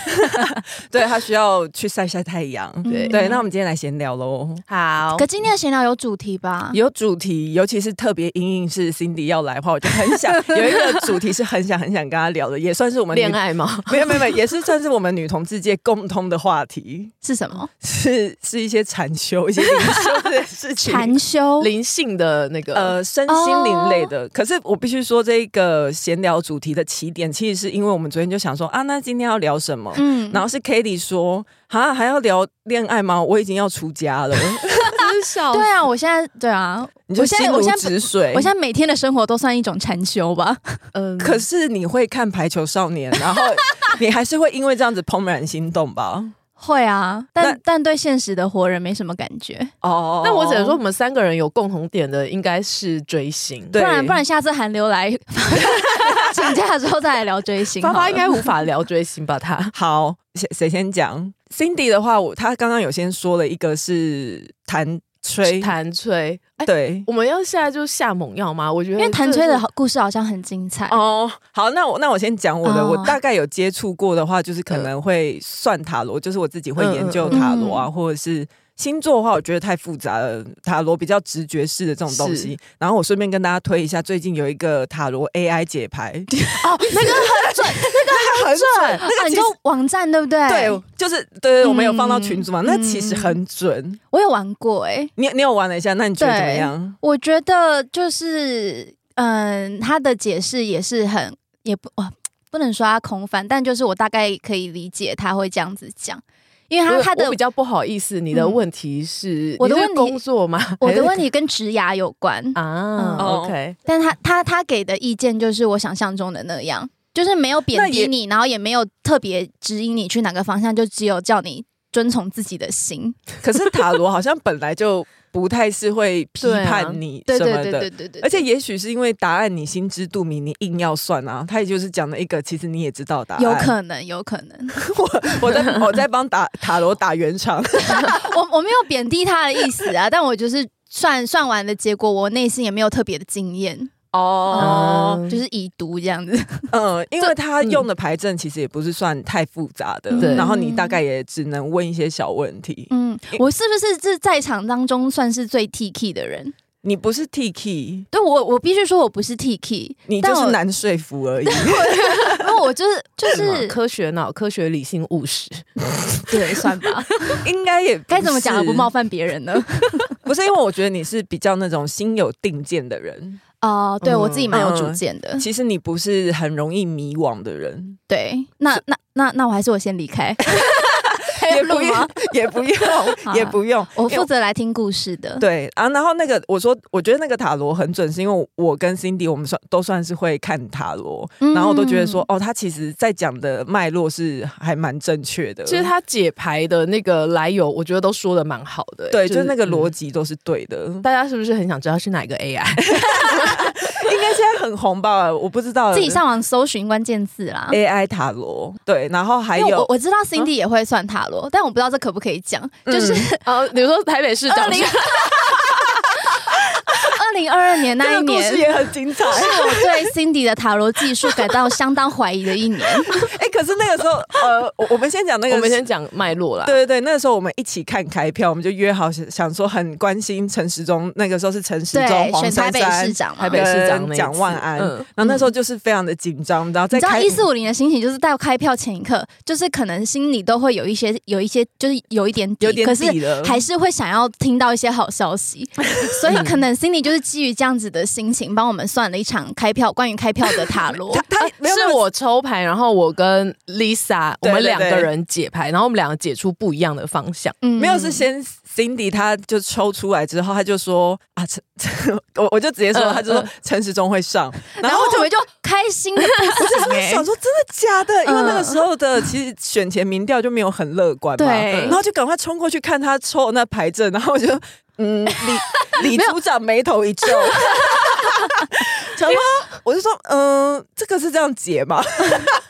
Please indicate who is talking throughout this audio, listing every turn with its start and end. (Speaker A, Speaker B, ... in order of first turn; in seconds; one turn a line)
Speaker A: 0.3-4.6
Speaker B: 2.9-3.4
Speaker C: 2.9-3.3
Speaker C: 4.7-5.3
Speaker B: 5.2-6.8
Speaker A: 6.7-17.1
Speaker B: 10.4-10.8
Speaker C: 13.1-14.2
Speaker B: 17.2-17.7
Speaker A: 17.8-21.1
Speaker B: 20.8-21.7
Speaker C: 21.6-22.9
Speaker A: 22.7-35.0
Speaker B: 23.3-24.1
Speaker B: 30.0-30.4
Speaker C: 34.9-35.7
Speaker B: 35.5-40.8
Speaker A: 37.1-38.5
Speaker C: 40.9-41.4
Speaker A: 41.2-46.4
Speaker B: 46.6-49.7
Speaker A: 49.8-50.8
Speaker C: 50.2-53.8
Speaker A: 53.7-54.2
Speaker B: 53.8-58.5
Speaker C: 57.8-59.7
Speaker A: 59.8-65.7
Speaker C: 65.5-69.6
Speaker A: 66.6-67.1
Speaker B: 69.0-71.0
Speaker A: 70.9-89.5
Speaker B: 72.6-73.2
Speaker C: 76.8-77.5
Speaker B: 77.3-77.9
Speaker C: 82.1-82.5
Speaker B: 86.3-90.8
Speaker C: 86.6-87.5
Speaker A: 90.5-94.0
Speaker B: 91.6-93.4
Speaker B: 94.1-95.1
Speaker A: 95.2-97.0
Speaker B: 96.2-107.4
Speaker C: 106.9-111.2
Speaker B: 108.3-108.6
Speaker B: 109.6-110.2
Speaker B: 110.8-113.3
Speaker C: 112.5-113.8
Speaker A: 113.2-113.6
Speaker B: 113.9-123.2
Speaker A: 117.7-118.1
Speaker A: 123.4-133.8
Speaker C: 126.4-127.0
Speaker B: 127.3-128.4
Speaker B: 133.4-135.4
Speaker A: 134.8-138.2
Speaker B: 137.9-146.7
Speaker A: 144.1-145.2
Speaker C: 144.6-145.4
Speaker A: 146.7-153.4
Speaker C: 147.6-147.9
Speaker B: 150.1-151.0
Speaker C: 150.2-150.5
Speaker B: 152.9-156.5
Speaker A: 156.8-158.1
Speaker B: 158.1-160.6
Speaker A: 160.1-162.5
Speaker B: 161.5-163.8
Speaker C: 163.3-166.2
Speaker B: 166.3-167.4
Speaker A: 167.4-168.9
Speaker B: 168.1-170.2
Speaker A: 170.2-173.4
Speaker B: 173.6-175.5
Speaker C: 174.0-174.5
Speaker A: 174.5-178.0
Speaker B: 178.1-180.8
Speaker A: 180.8-184.3
Speaker B: 181.3-182.3
Speaker B: 183.1-185.4
Speaker A: 185.4-195.9
Speaker B: 191.4-192.2
Speaker C: 195.7-199.9
Speaker A: 199.1-201.1
Speaker C: 201.0-203.6
Speaker A: 202.9-206.2
Speaker B: 205.9-207.8
Speaker A: 207.7-209.9
Speaker B: 209.6-213.4
Speaker A: 212.9-213.3
Speaker C: 213.4-215.1
Speaker B: 214.5-215.3
Speaker B: 216.9-218.7
Speaker A: 218.0-220.1
Speaker B: 219.3-223.2
Speaker A: 223.1-225.9
Speaker C: 225.5-226.8
Speaker A: 226.6-237.4
Speaker B: 231.9-233.6
Speaker C: 233.4-235.1
Speaker B: 236.9-251.2
Speaker A: 242.6-243.6
Speaker C: 246.3-246.6
Speaker A: 251.1-252.0
Speaker C: 251.4-257.6
Speaker A: 254.4-255.1
Speaker B: 257.6-258.3
Speaker A: 257.8-265.3
Speaker C: 262.9-263.5
Speaker B: 264.8-267.3
Speaker A: 266.6-282.6
Speaker B: 268.3-268.8
Speaker B: 271.4-272.0